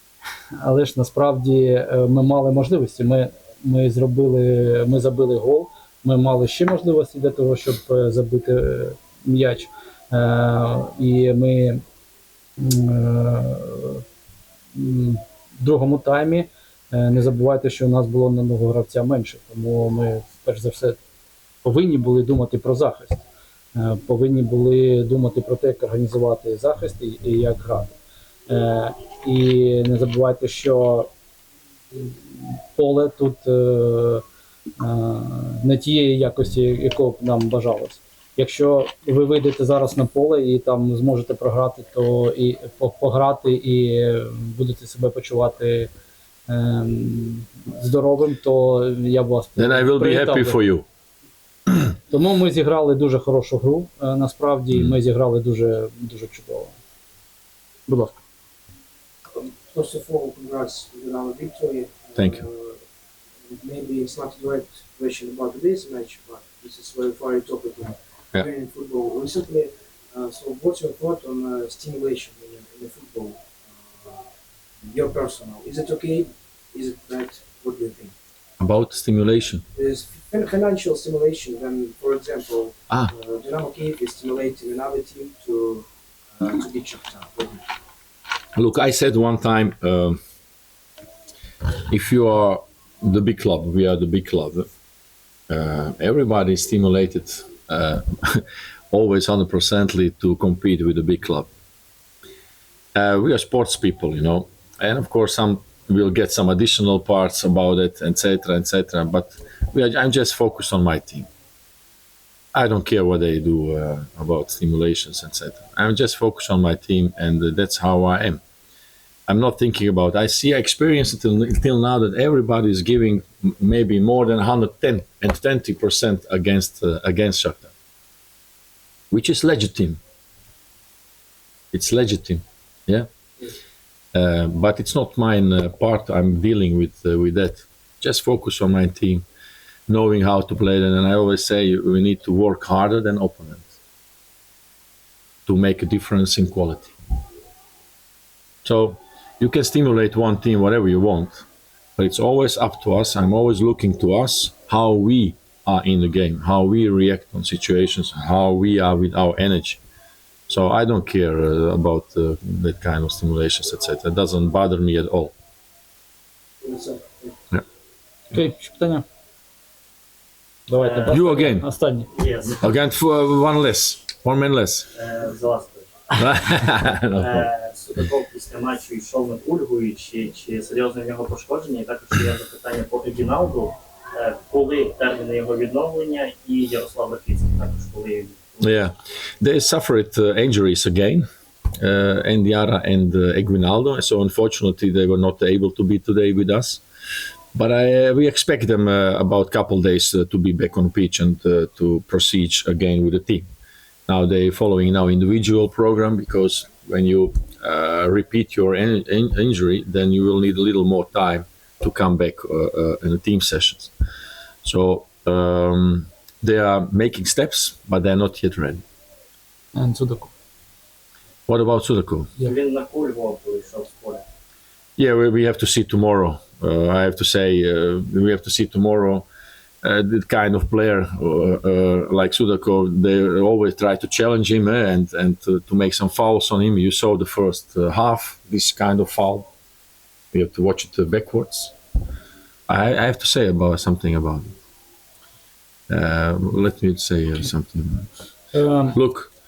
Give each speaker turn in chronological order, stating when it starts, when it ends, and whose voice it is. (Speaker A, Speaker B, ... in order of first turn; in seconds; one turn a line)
Speaker A: 0.6-11.8
Speaker A: 12.6-14.0
Speaker A: 14.7-21.0
Speaker A: 21.6-23.2
Speaker A: 23.8-28.0
Speaker A: 28.5-31.1
Speaker A: 31.9-34.2
Speaker A: 34.8-45.9
Speaker A: 46.5-50.6
Speaker B: 49.6-50.9
Speaker A: 52.1-56.8
Speaker B: 54.7-55.0
Speaker A: 57.9-58.2
Speaker C: 59.3-62.8
Speaker B: 62.2-62.5
Speaker C: 63.4-74.3
Speaker C: 74.8-78.1
Speaker B: 78.6-79.6
Speaker C: 79.8-87.7
Speaker B: 88.6-90.2
Speaker B: 91.9-94.7
Speaker B: 95.5-101.5
Speaker B: 103.0-111.3
Speaker B: 112.5-118.4
Speaker B: 119.3-127.7
Speaker B: 129.1-130.0
Speaker B: 131.7-133.1
Speaker B: 134.1-139.3
Speaker B: 139.9-143.8
Speaker B: 145.5-146.9
Speaker B: 148.6-151.4
Speaker B: 152.0-159.8
Speaker B: 160.5-165.3
Speaker C: 166.6-167.4
Speaker A: 168.3-169.1
Speaker A: 170.7-172.1
Speaker D: 170.7-171.3
Speaker B: 171.1-171.7
Speaker D: 172.1-172.6
Speaker B: 172.6-174.9
Speaker D: 174.9-176.4
Speaker B: 176.2-177.5
Speaker D: 177.2-188.6
Speaker B: 188.6-196.8
Speaker B: 197.5-203.4
Speaker B: 204.1-213.9
Speaker B: 214.6-218.8
Speaker A: 219.7-220.3
Speaker B: 221.5-222.3
Speaker D: 222.4-224.2
Speaker B: 225.0-229.3
Speaker B: 229.8-239.5
Speaker B: 240.3-241.8
Speaker B: 242.7-244.6
Speaker B: 245.9-248.1
Speaker A: 248.5-249.0
Speaker B: 248.9-249.3